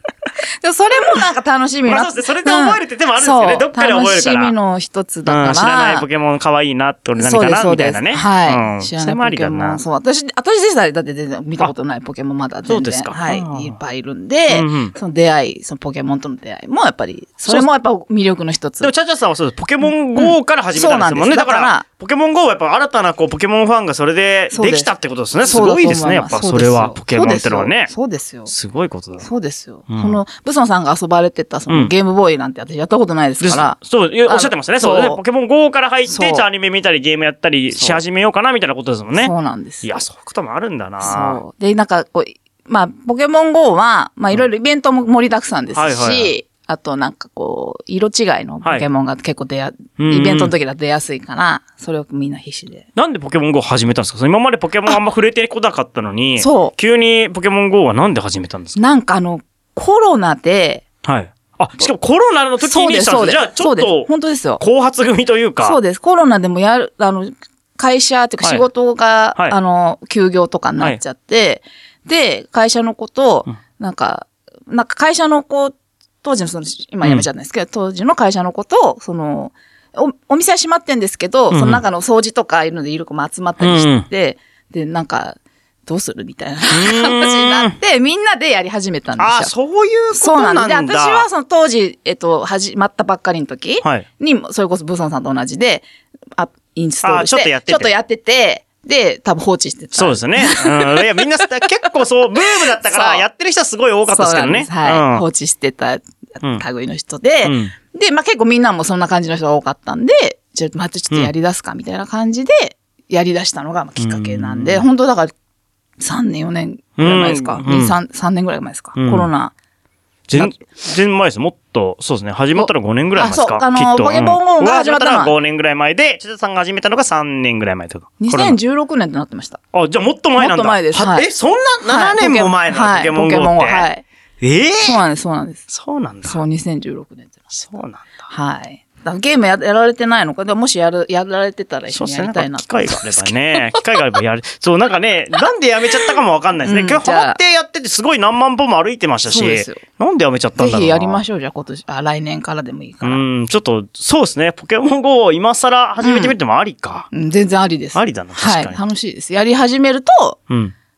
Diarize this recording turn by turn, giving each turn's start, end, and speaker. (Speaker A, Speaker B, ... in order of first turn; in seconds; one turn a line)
Speaker A: 0.6-6.1
Speaker B: 1.9-4.6
Speaker B: 5.3-9.8
Speaker A: 7.2-18.9
Speaker B: 12.7-13.8
Speaker B: 14.5-14.9
Speaker B: 18.8-27.9
Speaker A: 19.8-21.9
Speaker A: 24.5-28.5
Speaker B: 28.5-29.3
Speaker A: 29.2-35.2
Speaker B: 29.9-30.2
Speaker B: 33.4-41.4
Speaker A: 36.1-36.5
Speaker A: 37.7-38.0
Speaker A: 39.2-40.0
Speaker A: 41.0-52.9
Speaker B: 45.8-46.3
Speaker B: 50.0-50.5
Speaker B: 53.0-58.8
Speaker A: 56.4-56.7
Speaker A: 58.8-60.8
Speaker B: 61.0-65.8
Speaker A: 62.6-64.6
Speaker A: 65.6-89.5
Speaker B: 81.5-81.8
Speaker B: 83.6-84.1
Speaker B: 86.7-87.8
Speaker B: 89.2-91.3
Speaker A: 90.1-101.2
Speaker B: 97.0-97.9
Speaker B: 99.9-105.2
Speaker A: 102.7-103.2
Speaker A: 104.1-115.3
Speaker B: 107.4-107.8
Speaker B: 114.0-114.8
Speaker A: 116.0-119.5
Speaker B: 117.0-118.0
Speaker B: 119.0-119.3
Speaker B: 120.3-128.6
Speaker A: 120.4-120.7
Speaker A: 122.6-125.3
Speaker A: 128.2-129.6
Speaker B: 129.7-133.9
Speaker A: 130.4-131.3
Speaker A: 131.8-134.0
Speaker B: 134.4-135.0
Speaker A: 134.8-135.7
Speaker B: 135.7-136.4
Speaker A: 136.3-137.5
Speaker B: 137.5-138.1
Speaker A: 138.3-143.9
Speaker B: 141.9-151.2
Speaker A: 146.6-147.4
Speaker A: 149.3-149.8
Speaker A: 150.6-153.2
Speaker B: 153.0-157.1
Speaker A: 156.0-156.3
Speaker A: 157.1-160.4
Speaker B: 157.9-158.8
Speaker B: 160.5-160.7